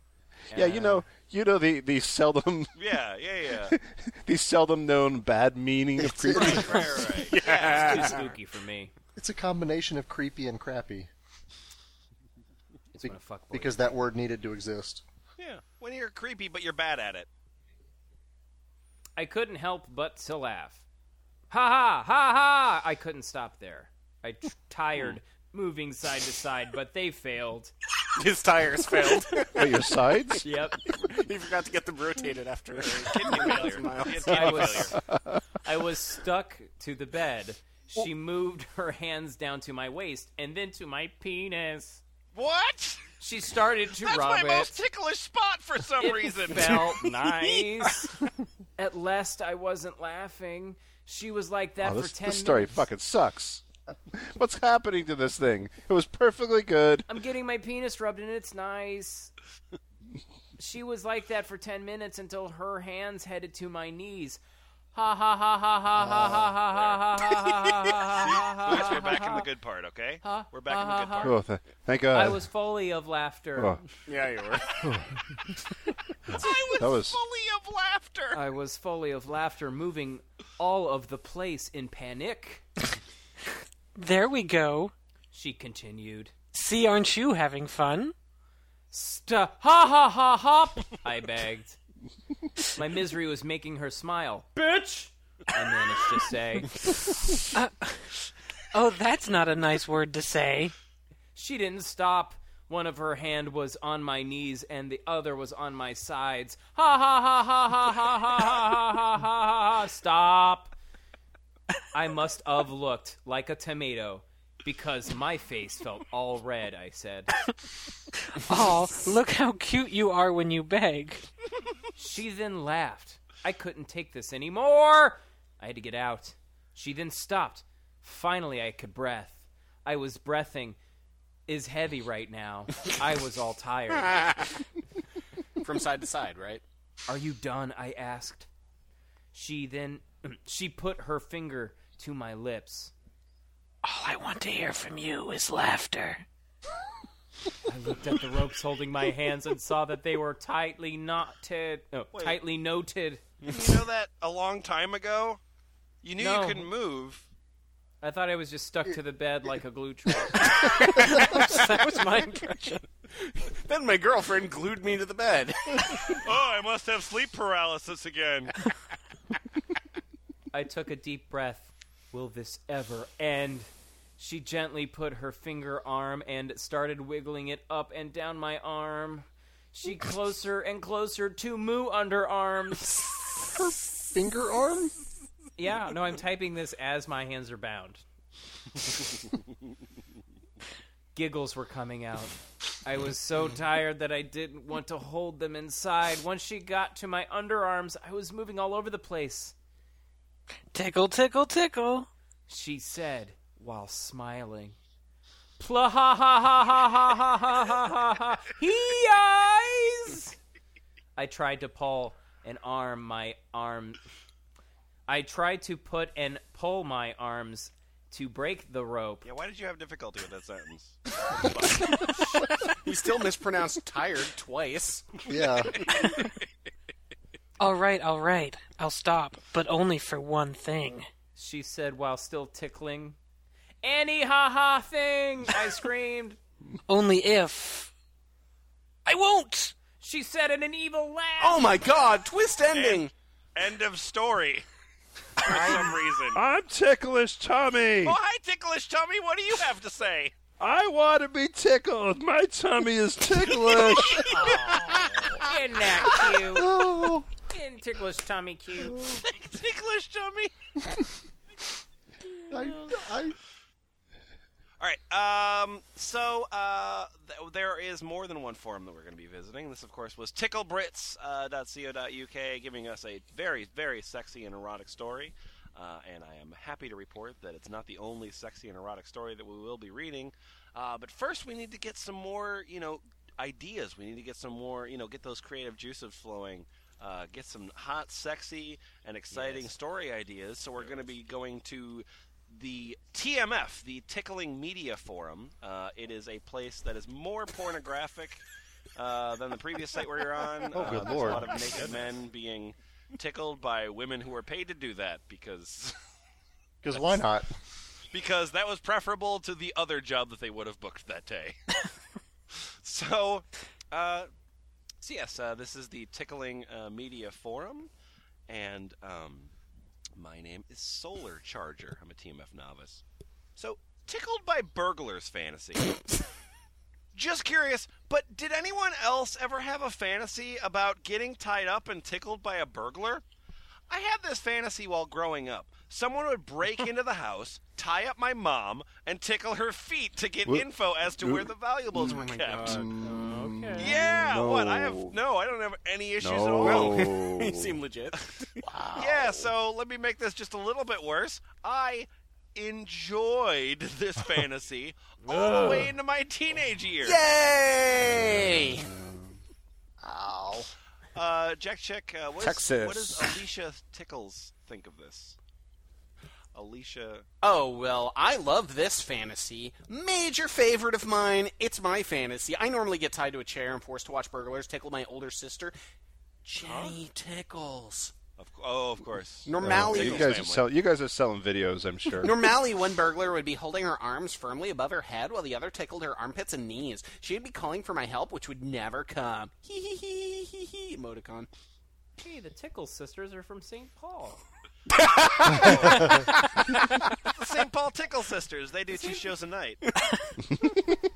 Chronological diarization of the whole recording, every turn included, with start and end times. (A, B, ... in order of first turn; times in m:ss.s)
0:00.5-0:01.0 A
0:00.5-0:02.7 B
0:02.8-0:03.8 C
0:03.7-0:06.9 B
0:06.0-0:07.1 D
0:06.4-0:08.1 C
0:07.1-0:08.3 E
0:07.4-0:08.9 A
0:09.2-0:11.1 D
0:12.9-0:13.9 A
0:13.0-0:15.0 D
0:15.4-0:17.3 C
0:19.2-0:20.8 A
0:21.5-0:27.7 A
0:28.2-0:30.0 E
0:29.6-0:30.5 B
0:30.4-0:30.8 A
0:30.9-0:34.8 E
0:32.8-0:35.0 C
0:34.2-0:35.0 A
0:34.9-0:35.4 B
0:35.6-0:42.0 A
0:42.4-0:43.1 C
0:43.2-0:44.8 A
0:44.0-0:46.9 C
0:46.0-0:48.2 A
0:48.8-0:52.9 A
0:51.8-0:57.1 B
0:57.1-0:59.3 A
1:00.6-1:04.4 A
1:04.9-1:09.5 A
1:08.3-1:11.4 C
1:10.2-1:11.4 A
1:11.2-1:12.4 B
1:12.1-1:13.8 A
1:13.6-1:13.8 B
1:14.1-1:14.8 E
1:16.3-1:18.4 C
1:16.8-1:17.2 B
1:18.3-1:22.6 A
1:24.0-1:24.9 F
1:25.3-1:26.3 A
1:26.5-1:28.1 F
1:28.9-1:31.8 A
1:32.8-1:36.9 A
1:37.5-1:38.0 F
1:38.7-1:40.7 F
1:41.4-1:50.7 A
1:51.9-1:57.3 A
1:58.4-2:01.3 F
2:02.0-2:10.8 A
2:11.5-2:14.3 A
2:14.0-2:14.6 E
2:15.6-2:16.6 E
2:17.1-2:18.5 A
2:19.3-2:22.9 A
2:23.8-2:26.2 F
2:27.7-2:33.2 A
2:32.1-2:32.4 C
2:33.4-2:33.8 E
2:33.5-2:35.4 C
2:36.0-2:37.3 C
2:36.2-2:36.7 A
2:38.0-2:40.8 A
2:40.6-2:41.6 E
2:41.0-2:42.8 F
2:43.2-2:46.2 E
2:46.2-2:48.5 C
2:50.5-2:53.7 A
2:54.2-3:03.2 A
3:03.4-3:04.9 D
3:05.6-3:08.0 A
3:11.2-3:19.5 A
3:20.7-3:22.1 F
3:22.5-3:24.8 A
3:25.6-3:30.4 A
3:31.2-3:34.0 A
3:35.1-3:39.3 A
3:39.2-3:42.1 C
3:41.8-3:45.2 E
3:45.3-3:45.8 D
3:47.6-3:51.1 F
3:51.4-3:53.2 A
3:53.8-3:56.4 A
3:56.9-3:57.9 F
3:59.1-3:59.8 F
4:00.0-4:01.7 A
4:01.4-4:03.1 E
4:02.7-4:04.7 C
4:05.4-4:06.4 C
4:06.4-4:08.2 B
4:08.0-4:10.4 C
4:10.6-4:14.5 B
4:14.4-4:16.8 A
4:16.5-4:17.3 D
4:17.5-4:19.1 A
4:19.0-4:20.5 C
4:22.5-4:23.4 D
4:22.5-4:22.8 A
4:24.8-4:58.4 C
4:49.3-4:49.7 A
4:59.0-5:06.0 C
5:00.7-5:01.6 D
5:06.8-5:07.6 D
5:06.9-5:07.2 C
5:08.1-5:11.6 C
5:12.5-5:14.3 C
5:15.0-5:17.9 C
5:18.5-5:19.5 C
5:20.2-5:23.0 C
5:23.6-5:25.9 C
5:27.1-5:33.2 C
5:33.9-5:42.9 C
5:40.5-5:41.5 B
5:42.0-5:43.0 E
5:42.0-5:45.2 B
5:43.0-5:43.9 A
5:43.8-5:47.1 C
5:46.2-5:47.8 B
5:46.6-5:49.3 E
5:49.0-5:57.2 C
5:55.3-5:55.9 E
5:57.0-5:58.9 E
5:58.0-5:59.4 B
6:00.0-6:00.7 D
6:01.2-6:05.4 C
6:02.4-6:03.4 B
6:06.5-6:07.3 C
6:07.4-6:15.8 E
6:16.4-6:18.1 E
6:16.6-6:17.0 C
6:18.4-6:20.7 C
6:19.5-6:20.4 E
6:19.6-6:22.4 B
6:22.1-6:31.5 E
6:32.2-6:34.4 A
6:35.1-6:36.2 E
6:35.5-6:36.3 C
6:37.2-6:39.8 C